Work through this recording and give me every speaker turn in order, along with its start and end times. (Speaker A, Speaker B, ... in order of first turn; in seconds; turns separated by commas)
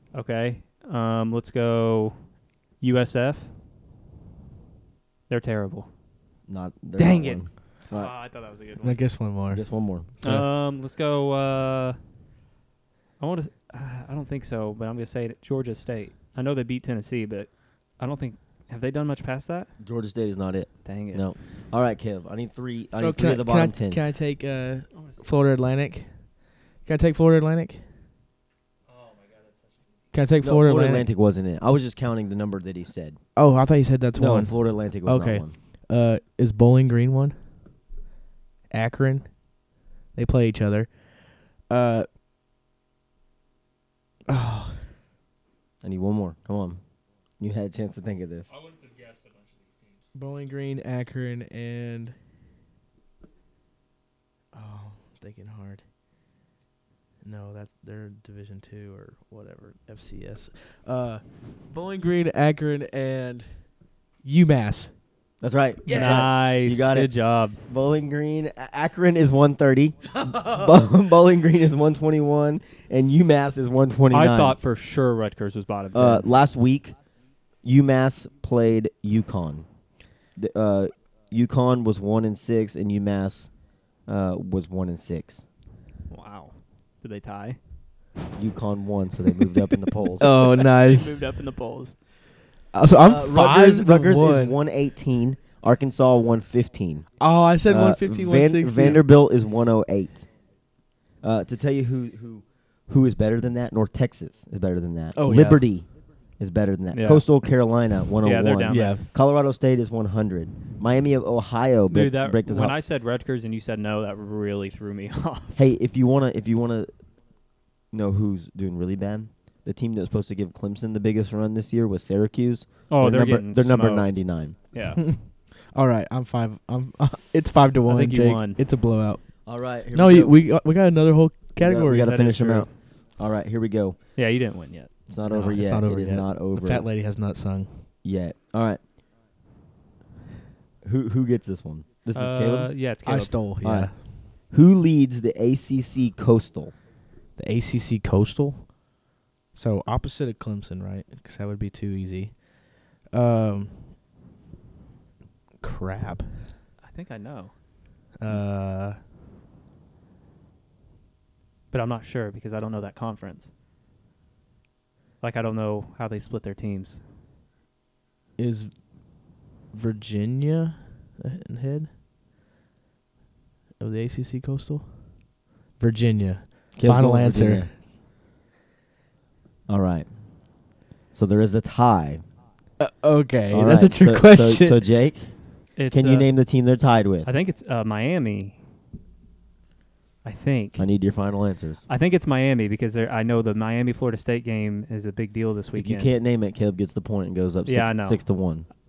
Speaker A: 0.1-2.2, Speaker A: 2.8-3.5, Speaker A: 5.3-5.9, Speaker B: 6.5-8.1, Speaker A: 7.0-9.1, Speaker C: 8.8-10.5, Speaker B: 9.5-10.1, Speaker A: 10.2-12.0, Speaker A: 13.2-19.7, Speaker B: 19.8-24.0, Speaker A: 20.9-21.3, Speaker C: 22.9-27.9, Speaker A: 24.9-25.2, Speaker A: 28.9-29.6, Speaker C: 30.1-31.1, Speaker B: 30.4-33.2, Speaker C: 33.4-37.4, Speaker B: 34.1-35.5, Speaker C: 38.7-39.4, Speaker C: 40.1-42.1, Speaker C: 44.3-44.9, Speaker B: 45.8-46.8, Speaker B: 47.4-48.5, Speaker A: 48.5-50.0, Speaker C: 50.1-52.1, Speaker C: 54.5-55.8, Speaker C: 57.2-63.7, Speaker C: 64.2-64.9, Speaker B: 65.4-74.6, Speaker C: 65.9-66.4, Speaker A: 65.9-67.7, Speaker C: 70.2-70.7, Speaker A: 74.1-76.3, Speaker B: 75.9-77.0, Speaker B: 77.6-79.7, Speaker B: 80.3-83.5, Speaker B: 84.1-85.4, Speaker A: 86.1-87.6, Speaker B: 88.4-90.3, Speaker C: 90.2-91.2, Speaker A: 90.2-92.0, Speaker C: 92.7-94.5, Speaker B: 93.0-97.1, Speaker C: 97.2-99.0, Speaker B: 97.6-100.3, Speaker B: 101.2-112.8, Speaker C: 105.2-105.6, Speaker A: 106.9-107.3, Speaker A: 108.2-109.0, Speaker C: 108.7-109.0, Speaker A: 111.9-115.7, Speaker B: 115.6-116.9, Speaker B: 117.9-124.5, Speaker A: 122.9-124.2, Speaker A: 124.7-125.0, Speaker C: 125.0-132.7, Speaker A: 127.9-128.6, Speaker B: 129.4-130.4, Speaker B: 131.6-134.0, Speaker A: 134.2-134.9, Speaker B: 135.1-136.9, Speaker C: 135.3-137.9, Speaker B: 138.0-138.8, Speaker B: 140.8-142.7, Speaker A: 142.1-143.4, Speaker C: 143.0-144.1, Speaker B: 143.6-146.8, Speaker C: 147.4-148.8, Speaker C: 149.5-154.0, Speaker C: 155.6-156.5, Speaker A: 156.8-157.5, Speaker C: 158.2-159.0, Speaker A: 161.7-163.5, Speaker A: 165.2-167.0, Speaker C: 168.4-168.9, Speaker C: 169.7-171.9, Speaker C: 173.8-177.7, Speaker B: 176.7-177.7, Speaker B: 179.7-180.1, Speaker B: 181.1-182.2, Speaker C: 182.8-184.8, Speaker B: 183.5-185.4, Speaker A: 185.8-186.3, Speaker B: 185.9-187.3, Speaker A: 187.2-188.6, Speaker A: 190.2-190.9, Speaker B: 190.8-191.8, Speaker A: 191.9-196.1, Speaker B: 195.7-198.7, Speaker A: 197.7-198.2